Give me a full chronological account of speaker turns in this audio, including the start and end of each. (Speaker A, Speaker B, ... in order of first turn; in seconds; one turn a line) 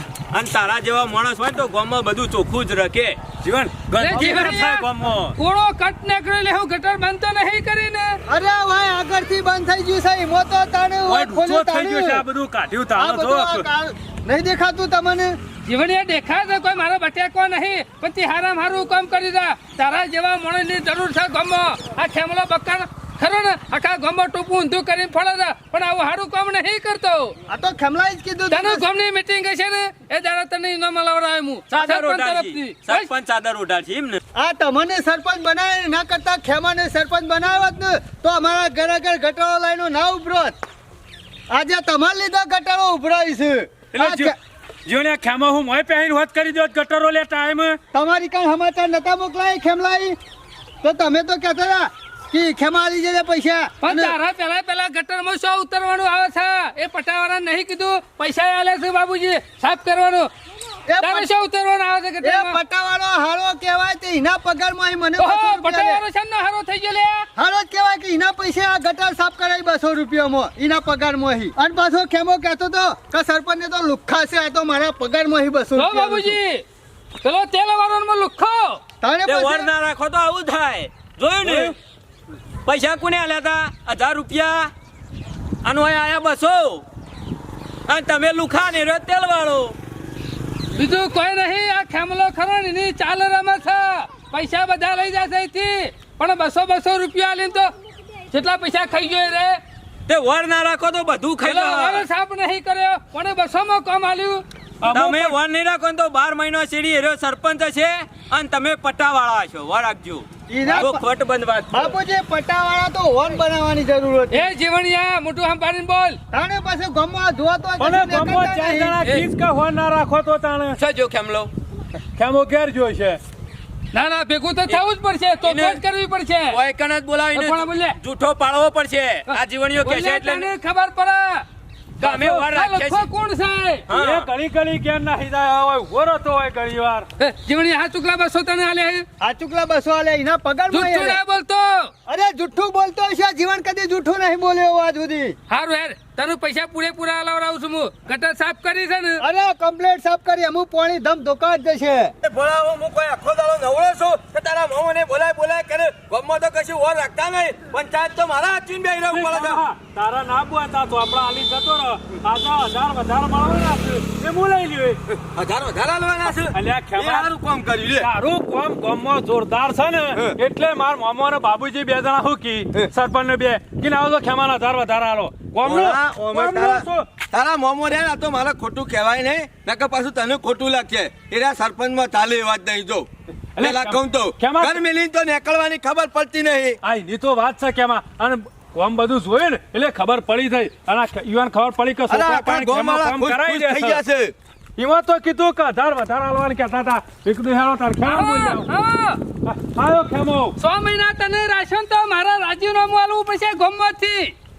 Speaker A: 0.3-3.2
Speaker B: 3.4-5.4
Speaker C: 4.0-8.2
Speaker D: 4.2-4.6
Speaker D: 8.3-12.2
Speaker B: 11.1-13.7
Speaker D: 12.9-15.4
Speaker C: 15.7-27.4
Speaker D: 27.5-28.8
Speaker C: 28.5-33.1
Speaker A: 31.7-34.2
Speaker D: 34.4-40.6
Speaker D: 41.5-44.3
Speaker B: 43.9-44.3
Speaker B: 44.9-47.8
Speaker D: 47.9-50.2
Speaker D: 50.8-54.2
Speaker C: 53.8-60.3
Speaker D: 60.9-61.3
Speaker C: 61.0-62.6
Speaker D: 62.2-66.0
Speaker C: 65.2-67.3
Speaker D: 67.3-76.3
Speaker C: 75.8-76.6
Speaker C: 77.2-78.8
Speaker D: 79.0-79.7
Speaker A: 79.2-81.8
Speaker B: 81.4-81.7
Speaker A: 82.7-84.7
Speaker A: 85.6-86.8
Speaker A: 87.9-89.7
Speaker C: 90.7-97.7
Speaker C: 98.3-99.6
Speaker A: 100.1-102.1
Speaker C: 101.4-104.4
Speaker B: 104.8-105.4
Speaker A: 104.8-112.0
Speaker D: 110.5-111.0
Speaker D: 111.7-114.5
Speaker C: 114.3-116.2
Speaker D: 116.3-119.0
Speaker B: 117.8-120.8
Speaker A: 120.8-121.5
Speaker B: 122.2-123.2
Speaker C: 123.9-126.6
Speaker A: 125.4-125.8
Speaker A: 126.5-130.5
Speaker C: 127.3-128.0
Speaker C: 129.3-131.4
Speaker A: 132.0-133.1
Speaker C: 132.0-133.8
Speaker A: 133.9-134.3
Speaker B: 133.9-137.1
Speaker C: 137.2-139.1
Speaker D: 139.2-141.2
Speaker C: 140.7-141.9
Speaker D: 142.1-145.4
Speaker C: 145.5-149.2
Speaker D: 149.2-152.1
Speaker E: 152.2-159.6
Speaker B: 159.1-165.0
Speaker E: 165.3-168.1
Speaker B: 166.5-167.3
Speaker B: 168.0-177.1
Speaker E: 175.6-186.8
Speaker B: 183.6-184.8
Speaker B: 186.8-194.0
Speaker E: 192.1-194.3
Speaker B: 194.8-198.7
Speaker C: 198.0-199.2
Speaker B: 199.4-200.5
Speaker C: 200.6-204.3